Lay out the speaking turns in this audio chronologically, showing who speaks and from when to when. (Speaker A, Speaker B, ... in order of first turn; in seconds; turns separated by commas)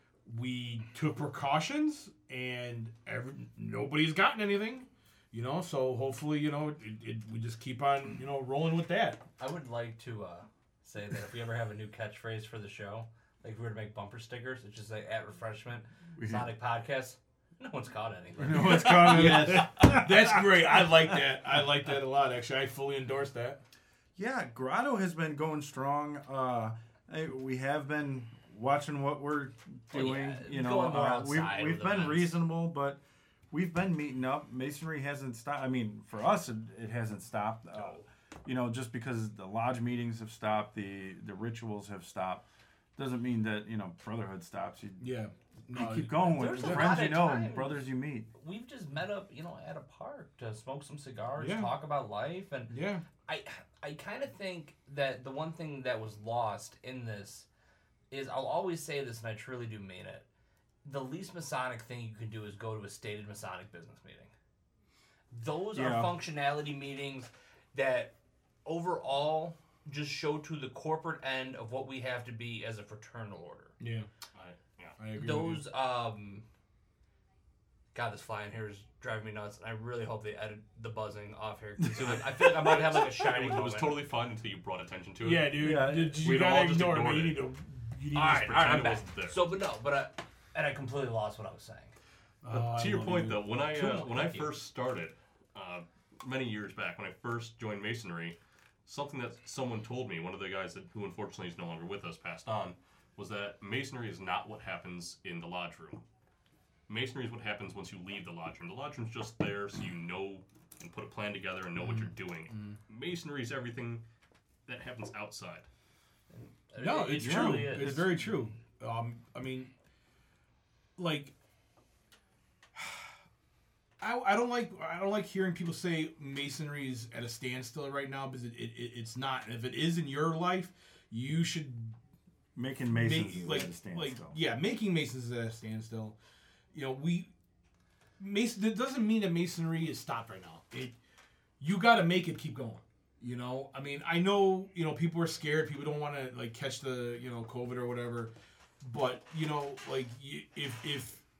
Speaker A: 0.2-9.2, Speaker B: 9.4-19.5, Speaker C: 16.1-16.5, Speaker C: 18.4-21.2, Speaker A: 18.5-23.6, Speaker C: 24.2-42.4, Speaker B: 29.9-32.3, Speaker B: 37.7-38.0, Speaker C: 43.0-45.1, Speaker A: 45.0-47.0, Speaker C: 45.7-48.3, Speaker B: 46.2-52.7, Speaker A: 51.4-51.7, Speaker A: 52.7-53.0, Speaker B: 53.2-57.5, Speaker B: 58.1-60.2, Speaker B: 60.8-64.3, Speaker B: 65.3-68.1, Speaker C: 65.7-66.1, Speaker B: 68.6-73.7, Speaker A: 73.8-74.1, Speaker D: 74.3-75.0, Speaker A: 75.0-75.6, Speaker B: 75.1-76.4, Speaker B: 77.9-84.0, Speaker C: 81.8-82.2, Speaker D: 82.0-87.5, Speaker A: 85.2-88.7, Speaker C: 85.5-86.5, Speaker B: 88.1-91.9, Speaker D: 88.2-89.4, Speaker A: 92.4-93.4, Speaker D: 92.5-106.0, Speaker B: 93.6-94.5, Speaker D: 106.9-114.0, Speaker A: 111.8-112.7, Speaker D: 114.7-115.7, Speaker B: 116.3-118.1, Speaker A: 116.8-119.7, Speaker C: 117.2-118.2, Speaker A: 121.0-121.3, Speaker A: 122.8-123.0, Speaker A: 124.0-132.0, Speaker C: 132.5-134.4, Speaker A: 132.9-136.2, Speaker A: 136.7-137.3, Speaker A: 138.2-141.0, Speaker A: 141.6-151.2